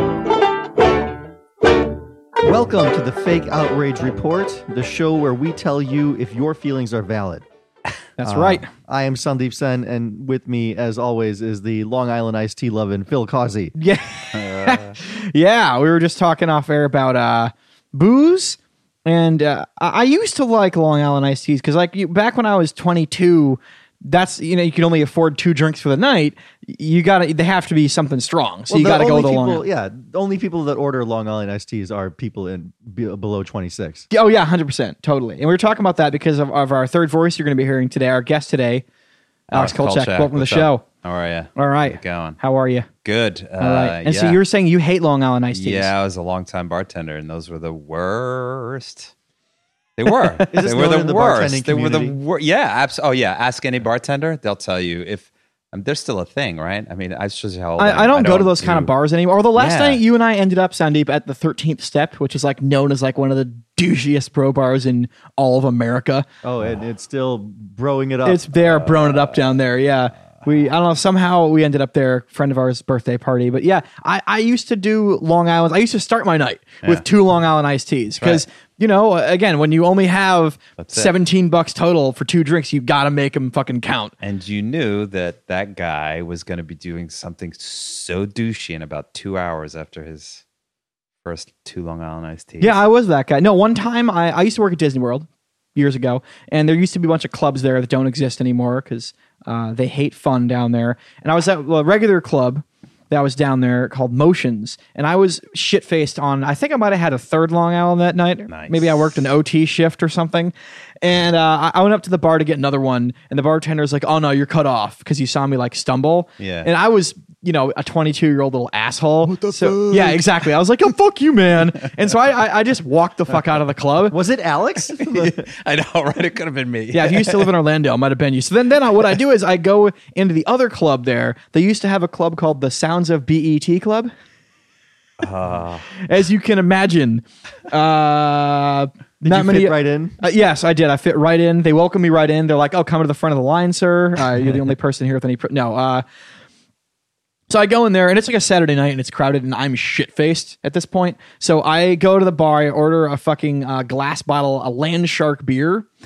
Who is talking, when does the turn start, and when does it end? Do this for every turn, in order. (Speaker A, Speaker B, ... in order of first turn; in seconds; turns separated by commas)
Speaker A: 2.4-7.4, Speaker B: 8.2-8.7, Speaker A: 8.2-13.7, Speaker B: 13.8-29.6, Speaker C: 14.3-15.0, Speaker A: 28.7-34.1, Speaker B: 34.1-38.8, Speaker B: 39.5-40.8, Speaker C: 39.5-42.4, Speaker B: 41.5-42.9, Speaker C: 43.0-44.4, Speaker B: 43.6-45.9, Speaker C: 45.5-49.1, Speaker C: 50.0-58.9, Speaker A: 50.5-52.2, Speaker B: 57.8-66.2, Speaker C: 59.5-60.0, Speaker A: 66.4-68.4, Speaker B: 68.2-84.1, Speaker C: 68.6-69.5, Speaker C: 80.8-81.1, Speaker C: 84.2-90.4, Speaker C: 91.2-92.8, Speaker B: 92.6-124.2, Speaker C: 108.5-109.2, Speaker C: 116.4-116.7, Speaker C: 119.3-120.4, Speaker A: 124.1-125.5, Speaker C: 125.0-127.5, Speaker B: 126.9-134.1, Speaker C: 135.2-135.9, Speaker B: 135.9-146.0, Speaker A: 139.3-140.2, Speaker B: 147.5-155.9